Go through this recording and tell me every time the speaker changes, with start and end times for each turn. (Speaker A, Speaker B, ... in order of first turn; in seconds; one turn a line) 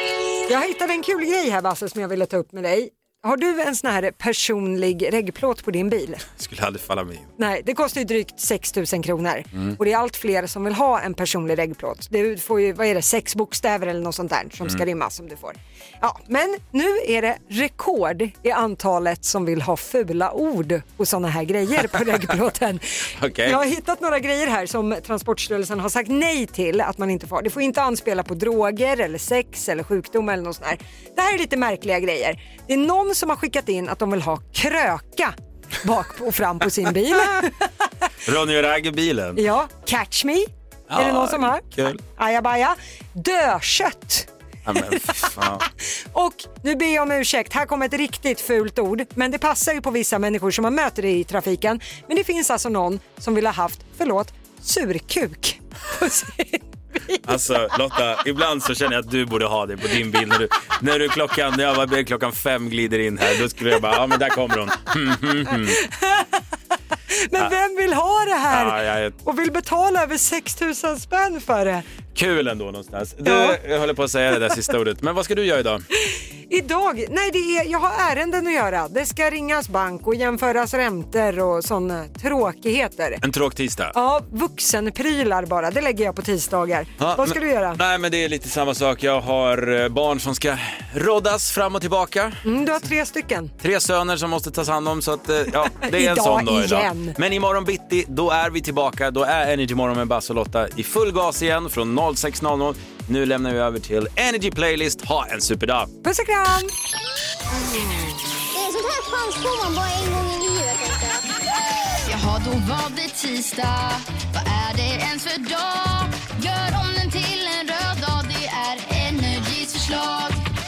Speaker A: 0.5-6.2
Speaker B: 6.3-7.3
Speaker A: 7.4-37.9
Speaker B: 23.1-23.6
Speaker B: 38.2-39.4
Speaker A: 39.4-44.8
Speaker B: 40.9-42.0
Speaker B: 44.6-45.6
Speaker A: 45.8-57.2
Speaker B: 57.2-65.8
Speaker A: 65.5-66.4
Speaker A: 67.1-71.8
Speaker B: 68.5-69.2
Speaker B: 72.1-75.8
Speaker A: 73.2-73.6
Speaker A: 76.0-83.2
Speaker B: 83.2-83.9
Speaker A: 83.9-87.8
Speaker B: 87.0-92.4
Speaker A: 92.4-93.5
Speaker B: 93.6-105.9
Speaker A: 95.8-97.2
Speaker A: 106.0-106.7
Speaker C: 108.5-111.2
Speaker D: 112.0-120.4